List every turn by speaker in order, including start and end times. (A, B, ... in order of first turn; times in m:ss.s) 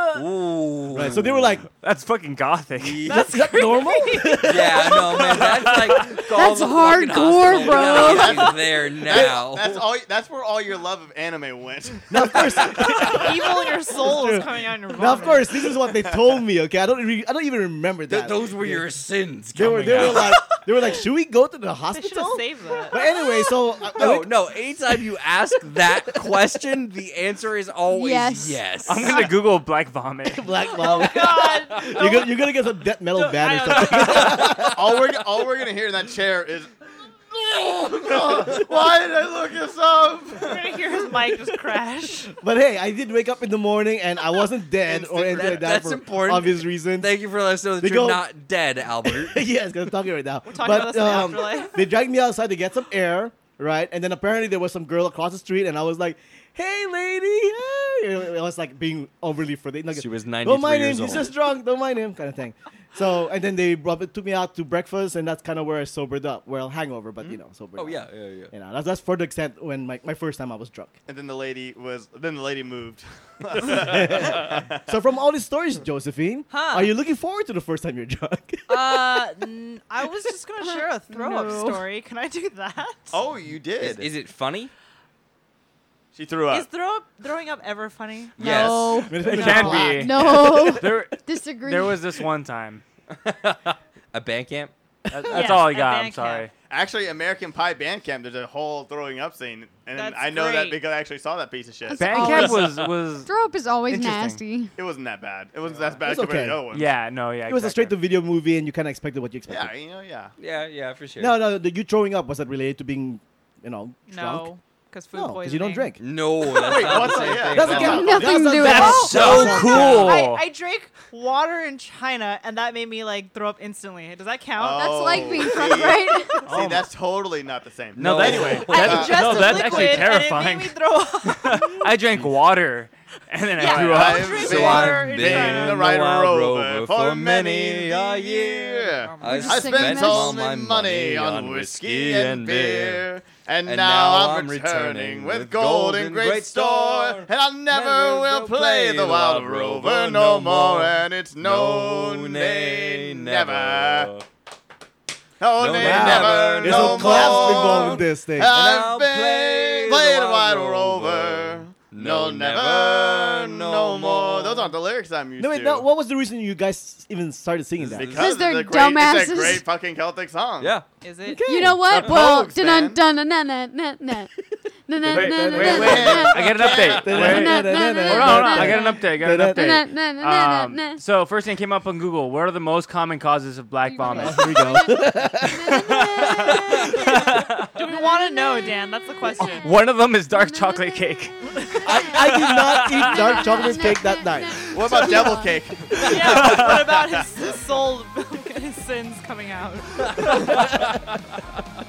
0:00.1-0:01.6 A
0:00.9-0:01.6 B
0:01.7-0:03.1 C
0:02.8-0:03.3 A
0:03.1-0:05.4 D
0:03.1-0:05.3 B
0:04.4-0:09.8 A
0:05.5-0:06.1 C
0:06.3-0:08.5 E
0:07.8-0:13.5 F
0:12.1-0:18.9 B
0:13.0-0:15.9 D
0:15.9-0:16.3 F
0:18.1-0:20.4 A
0:19.5-0:24.2 B
0:19.8-0:20.3 C
0:21.9-0:23.4 D
0:23.8-0:24.2 F
0:24.0-0:29.3 A
0:27.9-0:28.6 E
0:28.9-0:30.6 C
0:30.3-0:35.0 B
0:30.8-0:32.5 D
0:33.1-0:34.4 D
0:33.8-0:34.4 C
0:34.6-0:36.7 F
0:37.3-0:40.8 F
0:40.4-0:42.3 D
0:42.3-0:47.1 B
0:44.8-0:45.6 F
0:45.2-0:49.4 A
0:47.8-0:48.2 B
0:49.0-1:10.9 B
0:50.4-0:51.9 D
0:59.9-1:01.3 A
1:07.8-1:08.5 A
1:11.1-1:14.9 F
1:13.5-1:19.2 B
1:16.5-1:16.9 D
1:18.7-1:23.2 D
1:20.6-1:21.8 E
1:23.1-1:24.1 F
1:23.8-1:24.7 A
1:26.1-1:26.7 F
1:26.5-1:28.4 D
1:28.4-1:29.0 A
1:28.4-1:32.0 E
1:29.0-1:30.7 B
1:29.2-1:32.8 C
1:33.1-1:34.7 A
1:35.1-1:36.5 C
1:35.3-1:36.5 D
1:36.7-1:42.5 F
1:39.9-1:40.8 D
1:41.9-1:42.7 E
1:41.9-1:43.3 C
1:42.2-1:42.6 B
1:43.2-1:44.7 E
1:43.9-1:44.4 C
1:44.8-1:46.9 F
1:46.0-1:46.6 B
1:46.7-1:48.0 C
1:47.4-1:49.7 B
1:49.5-1:50.3 F
1:50.4-1:51.4 A
1:51.2-1:54.5 B
1:54.1-1:56.0 D
1:55.1-1:56.0 B
1:56.0-1:58.2 A
1:56.5-1:58.2 F
1:56.7-1:57.1 D
1:56.8-2:00.2 B
1:57.8-1:59.1 E
1:58.5-2:00.4 C
1:58.7-2:06.4 D
2:04.6-2:10.1 F
2:04.8-2:06.4 E
2:06.5-2:06.9 C
2:08.0-2:09.7 A
2:08.0-2:14.7 C
2:08.7-2:11.8 D
2:13.6-2:15.8 D
2:13.6-2:34.1 F
2:14.3-2:23.0 A
2:18.9-2:19.7 D
2:19.2-2:20.4 E
2:23.6-2:34.2 A
2:35.4-2:45.8 F
2:35.6-2:44.7 A
2:35.8-2:38.6 B
2:45.4-2:48.1 B
2:47.8-2:48.3 A
2:47.9-2:50.7 F
2:48.2-2:49.6 E
2:50.6-2:50.8 A
2:51.0-2:51.5 D
2:51.3-2:52.0 B
2:51.4-2:54.3 E
2:51.8-2:53.0 F
2:54.9-3:01.0 E
2:55.1-2:59.7 B
2:55.1-3:04.8 C
2:55.6-2:57.4 F
3:03.9-3:08.8 E
3:04.1-3:06.5 B
3:05.5-3:07.8 C
3:07.7-3:09.7 D
3:09.4-3:09.7 E
3:09.6-3:13.7 C
3:10.3-3:11.3 E
3:11.8-3:14.7 B
3:11.8-3:15.6 E
3:14.7-3:17.4 F
3:16.0-3:16.9 C
3:16.1-3:20.6 D
3:20.2-3:21.2 B